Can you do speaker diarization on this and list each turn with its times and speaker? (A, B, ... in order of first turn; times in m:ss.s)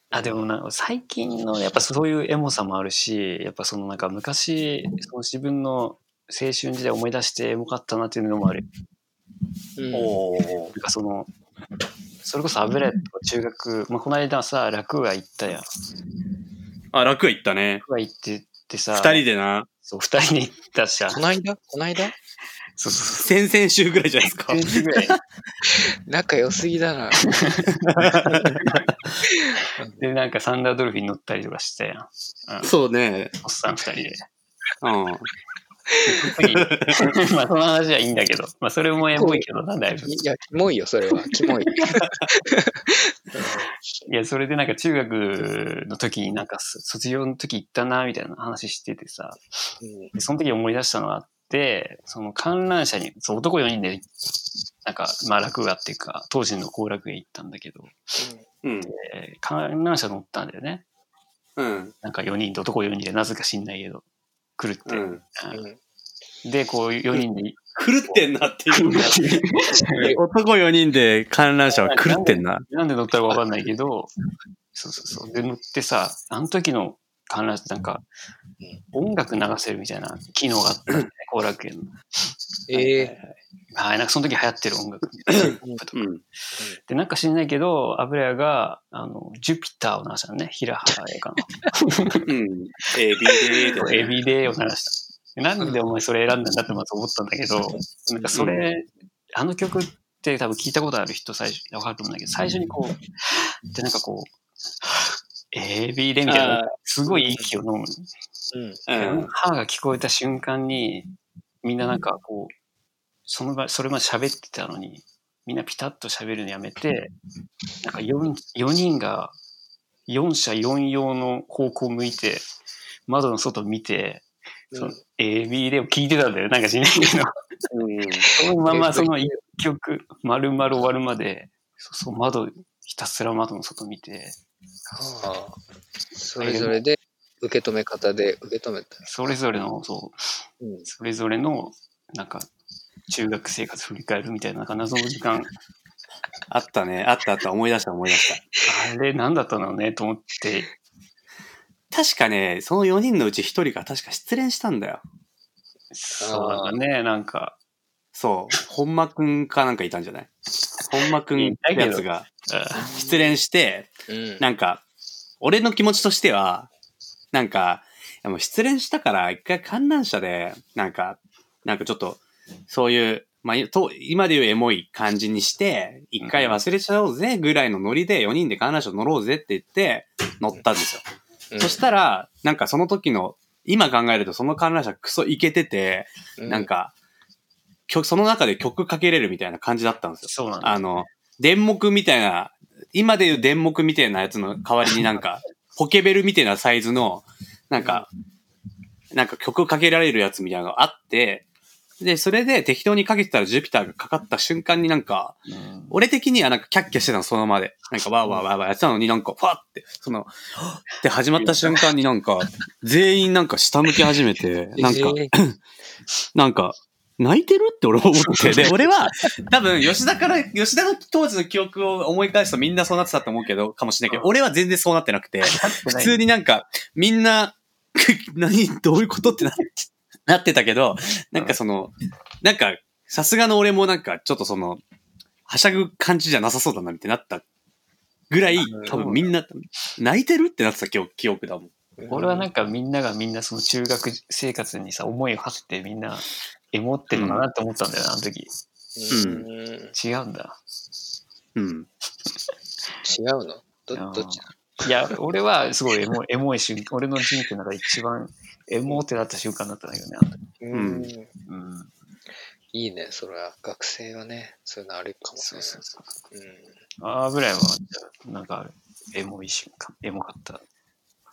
0:00.1-0:08.6 A
0:09.8-0:10.1 B
0:09.9-0:10.8 C
0:10.8-0:11.3 A
0:12.2-0:15.7 A
0:16.9-0:17.8 C
0:17.8-0:19.2 A
0:18.9-0:19.7 C
0:19.8-0:21.2 A
0:21.1-0:22.1 B
0:22.8-0:23.3 A
0:23.2-0:25.2 C
0:24.4-0:25.2 A
0:25.8-0:27.4 B
0:27.2-0:28.1 A
0:27.9-0:28.7 C
0:28.6-0:28.9 A
0:29.4-0:30.0 B
0:30.0-0:32.7 A
0:32.6-0:33.4 C
0:33.4-0:34.2 A
0:34.8-0:35.3 C
0:36.0-0:40.2 A
0:36.6-0:37.0 C
0:39.2-0:39.4 B
0:40.0-0:43.7 B
0:41.5-0:42.0 A
0:44.1-0:49.4 A
0:49.8-0:50.1 B
0:50.1-0:54.1 A
0:54.8-0:58.2 A
0:58.2-0:58.4 B
0:58.6-0:58.9 C
0:58.9-1:00.8 A
1:01.6-1:01.9 C
1:02.0-1:04.0 A
1:04.6-1:05.7 A
1:04.9-1:05.2 C
1:05.5-1:05.8 B
1:06.4-1:08.2 A
1:07.8-1:12.6 C
1:08.7-1:10.1 A
1:11.7-1:14.1 A
1:14.7-1:18.0 A
1:18.9-1:21.9 A
1:22.7-1:23.1 B
1:22.7-1:23.4 C
1:23.7-1:26.1 A
1:25.3-1:26.2 C
1:26.9-1:32.3 A
1:32.2-1:34.2 C
1:33.8-1:48.1 A
1:38.3-1:38.6 C
1:46.2-1:46.7 C
1:47.1-1:47.5 B
1:48.5-1:48.8 B
1:48.9-1:49.3 C
1:48.9-1:51.1 A
1:51.6-1:52.5 A
1:53.3-1:57.1 A
1:57.8-1:59.4 A
2:00.1-2:02.4 A
2:03.1-2:07.3 A
2:04.7-2:05.0 B
2:07.7-2:08.3 C
2:08.3-2:14.4 A
2:08.7-2:09.3 B
2:14.9-2:15.6 B
2:16.1-2:19.0 B
2:16.4-2:16.8 A
2:19.0-2:22.5 A
2:20.6-2:20.9 B
2:23.1-2:25.5 A
2:26.5-2:28.4 C
2:28.6-2:30.7 A
2:31.9-2:35.0 C
2:35.9-2:37.6 A
2:36.2-2:36.8 B
2:38.1-2:40.3 C
2:40.9-2:42.3 C
2:41.4-2:42.9 A
2:42.8-2:43.3 B
2:42.9-2:44.8 C
2:44.1-2:44.4 B
2:45.4-2:46.7 C
2:47.3-3:01.0 C
2:56.2-2:56.6 A
3:01.5-3:01.8 B
3:01.6-3:06.9 C
3:06.4-3:06.7 B
3:07.9-3:18.1 C
3:10.2-3:10.8 A
3:19.1-3:21.4 C
3:22.0-3:25.4 C
3:25.5-3:26.0 A
3:25.9-3:35.6 C
3:31.4-3:31.8 A
3:34.8-3:35.3 B
3:36.4-3:49.7 C
3:38.3-3:38.7 A
3:45.4-3:46.2 A
3:50.3-3:54.8 C
3:55.5-3:57.4 C
3:58.3-4:01.7 C
3:58.6-3:58.9 B
3:58.9-3:59.3 A
4:02.0-4:02.5 B
4:02.1-4:08.5 A
4:07.1-4:07.4 C
4:09.0-4:09.9 B
4:09.1-4:09.4 C
4:09.9-4:10.6 A
4:11.6-4:11.9 C
4:13.0-4:14.4 B
4:13.9-4:20.4 A
4:20.6-4:21.3 B
4:20.7-4:21.1 C
4:21.5-4:21.9 A
4:22.7-4:25.8 B
4:25.4-4:26.1 A
4:26.3-4:26.7 B
4:27.0-4:30.6 A